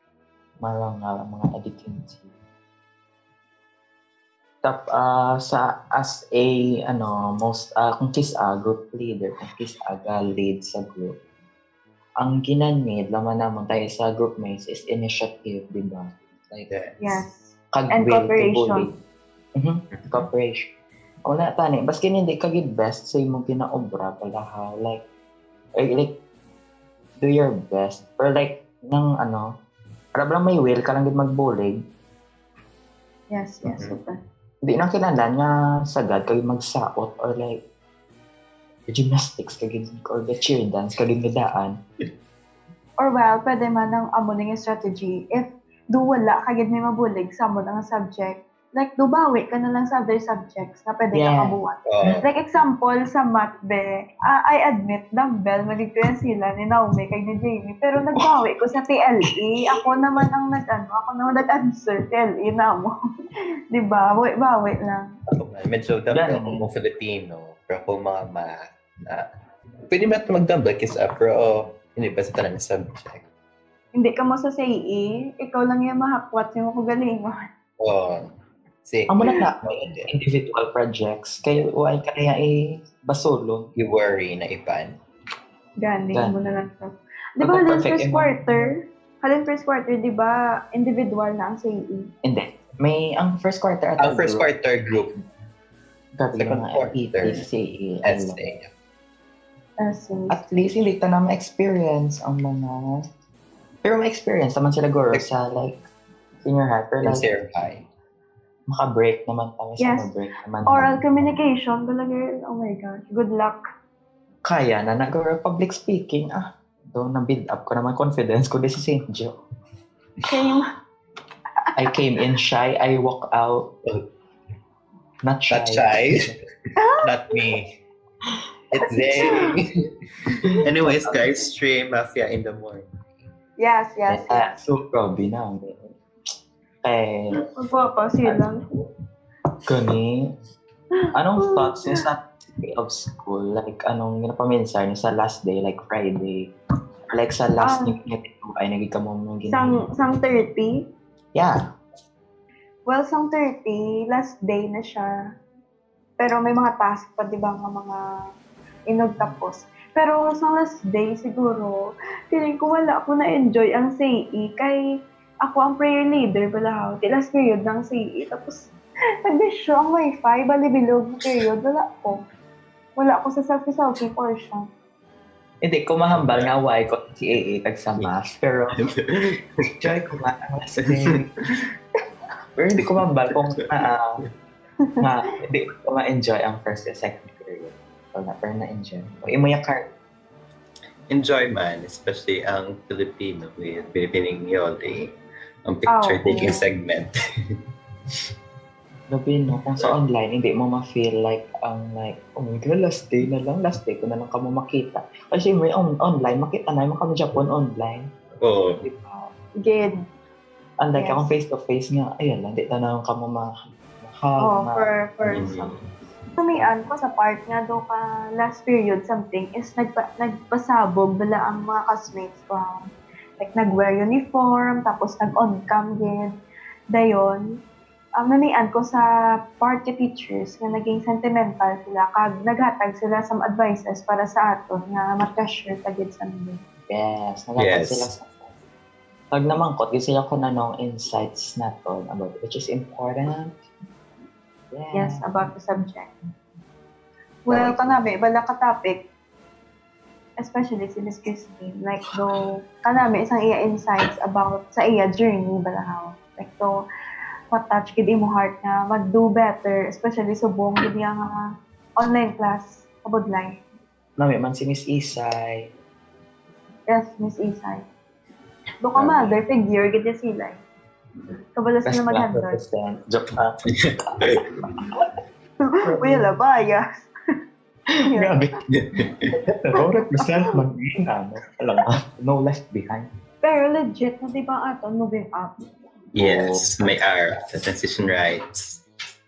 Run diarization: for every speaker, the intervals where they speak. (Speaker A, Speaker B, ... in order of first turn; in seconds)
Speaker A: 0.6-2.3, 4.6-11.1, 12.2-16.7, 17.7-18.9, 19.6-20.7, 21.2-25.0, 25.8-26.1, 27.2-29.5, 30.1-31.8, 34.6-37.6, 38.9-41.8, 51.1-51.5, 66.1-66.6, 79.1-83.7, 87.4-88.5, 92.2-94.5, 96.2-98.3, 100.3-103.0, 103.8-105.8, 106.4-107.2, 108.7-111.0, 114.5-119.3, 121.8-123.7, 125.2-126.3, 134.1-135.9, 136.8-137.4, 139.7-140.3, 141.1-146.5, 147.1-149.8, 151.3-151.6, 175.6-178.8, 179.8-181.3, 182.6-184.2, 185.0-189.8, 199.1-208.1, 208.8-209.3, 210.8-213.5, 214.0-214.9, 236.9-238.5, 239.3-243.5, 244.7-245.2, 247.5-248.0, 264.2-265.7, 268.9-269.4, 271.8-275.1, 275.9-276.3, 277.9-278.5, 279.3-283.1, 286.2-286.6
Speaker B: 16.7-17.0, 19.9-20.2, 33.7-34.0, 51.9-52.2, 65.3-69.2, 69.9-73.2, 77.8-78.3, 78.8-80.1, 83.8-84.9, 94.0-95.1, 96.4-97.4, 98.0-98.7, 107.0-107.8, 125.5-126.3, 127.0-127.7, 128.7-129.7, 130.5-132.9, 176.1-176.5, 178.8-179.9, 180.8-181.2, 191.1-195.1, 195.7-197.1, 208.4-208.8, 215.3-215.8, 237.6-238.1, 273.7-274.4, 278.7-279.3, 286.1-288.8
Speaker C: 17.0-18.9, 33.3-34.2, 43.0-62.9, 63.7-65.1, 73.9-77.5, 85.8-92.1, 99.8-100.4, 109.8-110.1, 110.7-113.6, 120.2-120.7, 126.8-127.3, 129.0-129.5, 130.9-131.3, 133.6-134.6, 137.5-138.6, 141.0-142.0, 147.6-147.9, 149.5-150.8, 152.9-155.1, 156.2-158.0, 158.9-164.8, 165.4-168.7, 169.2-172.2, 173.0-174.7, 195.9-196.6, 209.6-209.9, 210.9-211.3, 214.4-215.8, 216.4-226.3, 226.9-227.4, 228.2-229.1, 229.6-236.6, 244.9-246.1, 247.5-249.0, 250.4-256.8, 257.5-261.3, 262.0-263.6, 266.9-267.9, 268.8-270.6, 271.6-272.6, 275.6-277.1, 279.8-280.5, 283.4-285.5